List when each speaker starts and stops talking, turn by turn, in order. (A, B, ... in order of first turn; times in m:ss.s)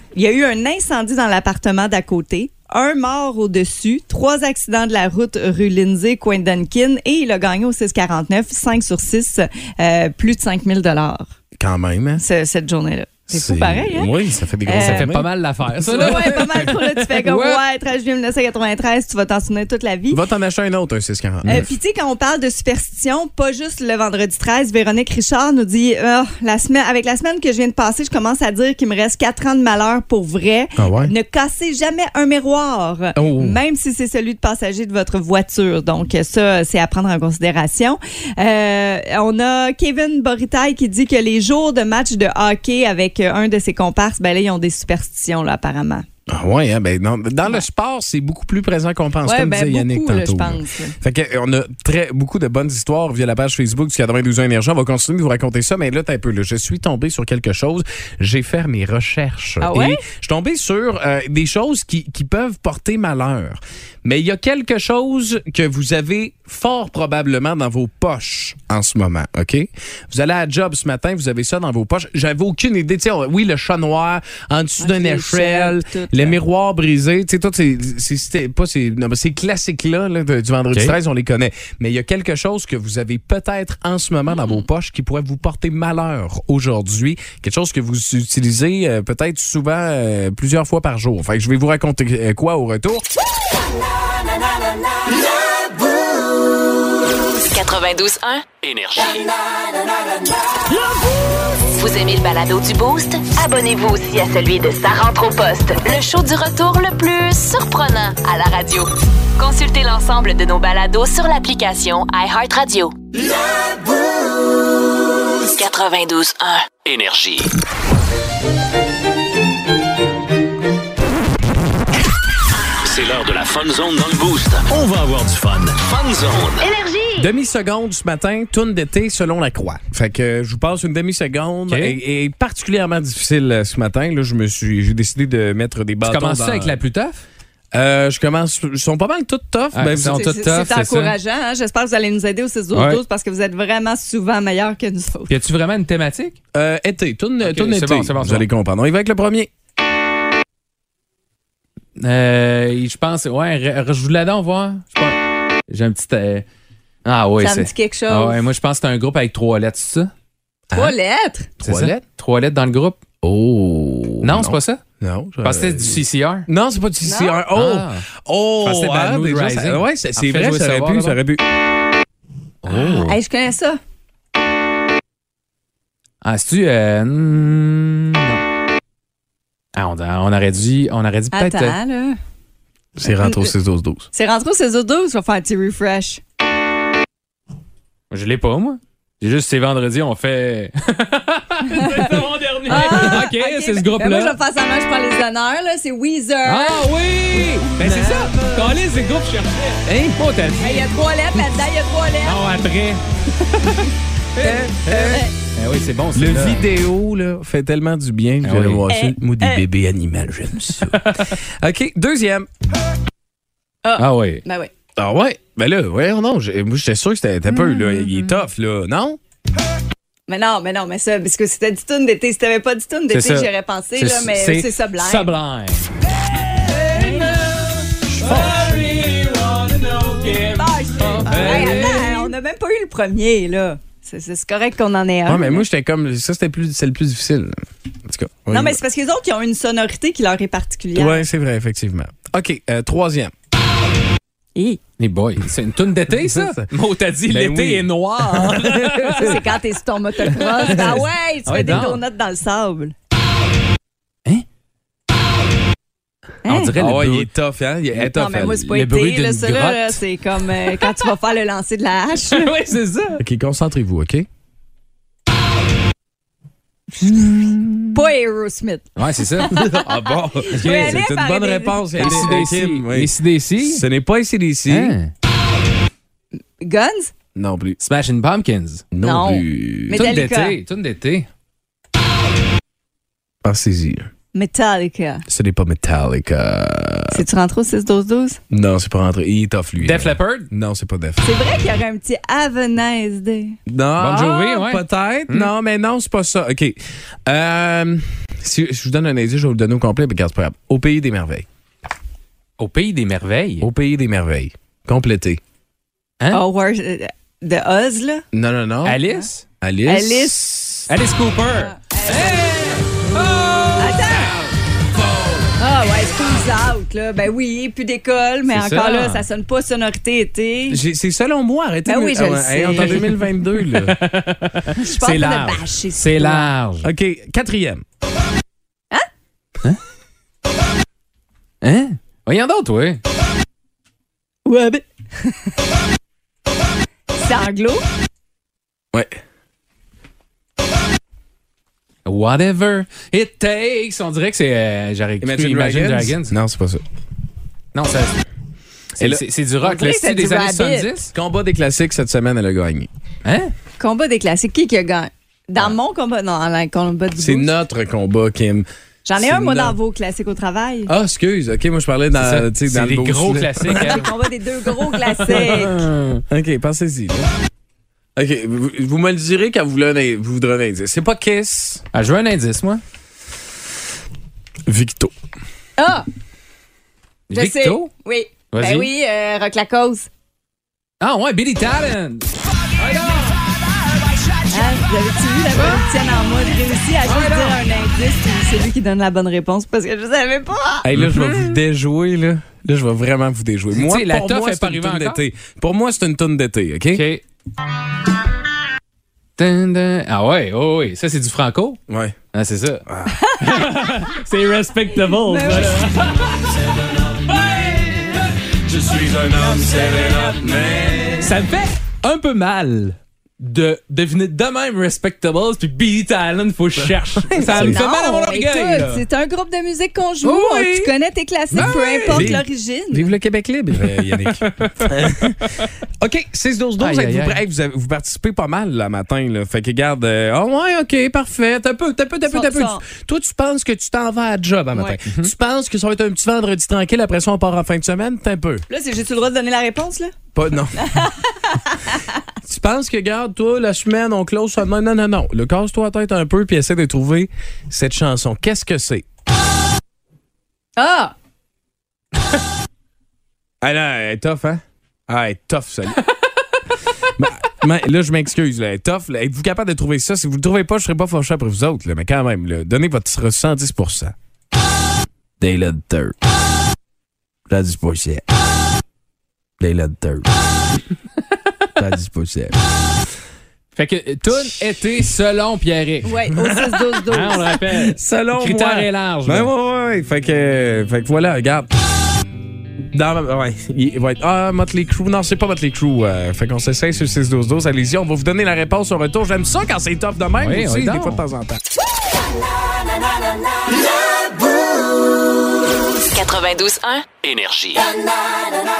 0:00.2-0:11.3 A
0:11.6-0:12.2 B
0:12.2-0:14.1 A
0:13.3-0:16.7 B
0:14.7-0:15.1 A
0:14.8-0:17.6 C
0:15.9-0:20.2 A
0:20.1-0:21.7 B
0:21.5-0:46.1 A
0:30.8-0:31.1 B
0:33.2-0:33.6 B
0:46.3-1:33.0 B
0:49.2-0:51.0 A
0:59.6-1:00.0 A
1:14.8-1:16.4 A
1:37.4-1:38.6 D
1:38.6-1:39.3 E
1:41.7-1:53.0 D
1:55.6-1:56.8 D
1:56.8-1:57.5 E
2:02.8-2:06.7 E
2:06.8-2:07.1 D
2:07.2-2:16.8 B
2:11.7-2:12.0 C
2:16.0-2:17.2 C
2:17.7-2:20.3 B
2:19.7-2:21.2 C
2:20.1-2:25.4 A
2:22.7-2:23.0 C
2:25.3-2:26.4 C
2:26.5-2:29.5 B
2:27.4-2:28.4 C
2:32.0-2:35.2 C
2:35.7-2:36.5 C
2:37.0-2:40.1 C
2:37.4-2:38.4 A
2:40.7-2:41.0 B
2:40.7-2:41.5 A
2:41.6-2:42.0 B
2:41.6-2:43.0 C
2:43.2-2:51.4 B
2:44.2-2:44.8 C
2:45.4-2:46.5 C
2:47.1-2:47.4 A
2:47.5-2:48.1 C
2:48.6-2:51.2 C
2:52.6-2:53.2 C
2:52.7-2:53.8 A
2:56.2-2:58.4 C
2:59.8-3:01.8 C
3:01.3-3:02.2 A
3:03.0-3:04.1 B
3:03.2-3:03.5 A
3:04.1-3:06.2 A
3:08.1-3:14.4 C
3:11.7-3:12.2 A
3:12.7-3:16.8 A
3:16.4-3:21.5 C
3:17.8-3:18.8 B
3:19.9-3:20.2 B
3:20.6-3:22.4 A
3:22.2-3:23.0 C
3:24.4-3:26.7 C
3:24.4-3:25.2 B
3:26.2-3:32.5 B
3:28.4-3:28.9 C
3:28.9-3:29.6 A
3:30.9-3:31.3 C
3:33.8-3:34.7 A
3:34.0-3:34.4 C
3:35.0-3:39.2 B
3:37.5-3:38.1 A
3:40.3-3:45.3 A
3:43.1-3:45.9 C
3:46.6-3:52.3 C
3:46.9-3:47.4 A
3:48.1-3:48.9 B
3:50.6-3:55.6 A
3:51.3-3:51.8 B
3:55.3-3:58.8 B
3:58.5-4:01.3 A
4:01.0-4:03.3 B
4:04.6-4:04.8 A
4:05.0-4:09.5 C
4:06.1-4:06.7 B
4:07.3-4:09.4 B
4:09.2-4:13.0 A
4:10.4-4:12.0 C
4:16.4-4:16.7 A
4:16.5-4:17.3 C
4:16.8-4:18.6 B
4:18.0-4:20.0 C
4:18.0-4:22.5 A
4:22.2-4:23.2 C
4:23.2-4:24.3 B
4:27.0-4:28.0 C
4:27.9-4:32.4 A
4:29.0-4:29.6 C
4:29.5-4:35.0 B
4:30.6-4:31.0 C
4:32.0-4:33.9 C
4:34.7-4:35.1 C
4:36.6-4:37.1 A
4:37.4-4:37.8 B
4:37.8-4:38.9 C
4:38.9-4:40.1 B
4:39.0-4:40.6 A
4:39.9-4:41.3 C
4:43.4-4:44.1 B
4:44.3-4:45.2 A
4:45.3-4:47.2 B
4:47.1-4:48.4 A
4:48.5-4:51.2 B
4:49.8-4:50.5 C
4:51.2-4:53.6 A
4:53.7-5:01.5 B
4:54.0-4:55.5 C
5:02.6-5:03.7 C
5:03.6-5:05.4 B
5:06.3-5:08.2 A
5:08.3-5:09.0 B
5:08.8-5:09.4 C
5:09.6-5:10.9 B
5:09.9-5:10.4 A
5:10.9-5:14.5 C
5:11.6-5:12.8 A
5:13.8-5:14.4 A
5:15.6-5:20.8 A
5:18.5-5:19.3 C
5:20.7-5:24.0 B
5:21.9-5:23.1 A
5:22.8-5:26.9 C
5:24.8-5:26.5 A
5:26.8-5:27.8 B
5:31.6-5:33.0 C
5:34.5-5:35.5 A
5:37.2-5:37.8 A
5:38.9-5:39.2 B
5:42.1-5:46.4 C
5:45.2-5:46.8 B
5:47.7-5:48.2 C
5:49.0-5:51.1 C
5:49.6-5:50.9 A
5:51.1-5:52.9 B
5:53.2-5:53.5 C
5:53.8-5:57.5 A
5:57.2-5:59.8 B
5:59.0-6:00.9 A
6:00.9-6:04.1 B
6:02.2-6:04.1 C
6:03.7-6:05.9 A
6:05.1-6:06.2 C
6:06.3-6:07.3 B
6:08.2-6:11.8 B
6:11.9-6:12.8 C
6:14.7-6:15.1 B
6:15.8-6:16.1 A
6:17.3-6:17.9 C
6:17.3-6:20.1 A
6:18.5-6:18.9 C
6:21.0-6:23.4 C
6:24.5-6:30.9 A
6:27.0-6:27.6 C
6:30.8-6:37.0 B
6:31.0-6:31.6 C
6:33.7-6:35.2 C
6:36.9-6:37.2 C
6:39.4-6:41.8 C
6:41.9-6:42.2 B
6:42.3-6:42.8 C
6:42.9-6:43.2 B
6:43.1-6:43.6 A
6:43.4-6:48.0 C
6:45.1-6:45.8 A
6:48.7-6:50.0 C
6:48.8-6:51.2 B
6:51.2-6:59.0 C
6:57.2-6:57.8 B
6:57.4-7:03.1 A
7:00.3-7:00.9 C
7:01.5-7:18.6 B
7:01.5-7:02.4 C
7:06.8-7:07.4 C
7:12.3-7:12.8 A
7:14.7-7:15.0 A
7:18.7-7:20.1 A
7:20.4-7:21.1 B
7:20.8-7:22.0 A
7:22.4-7:29.1 B
7:30.8-7:31.1 A
7:33.6-7:36.0 B
7:37.2-7:44.2 B
7:45.4-7:46.2 B
7:47.5-7:48.3 B
7:49.6-7:50.3 B
7:51.8-7:52.6 B
7:53.8-7:56.1 C
7:56.0-7:57.5 A
7:56.4-7:57.0 B
7:57.1-7:59.5 C
7:57.7-8:01.7 B
8:02.9-8:11.6 B
8:10.4-8:11.2 C
8:16.1-8:17.2 D
8:17.2-8:17.9 E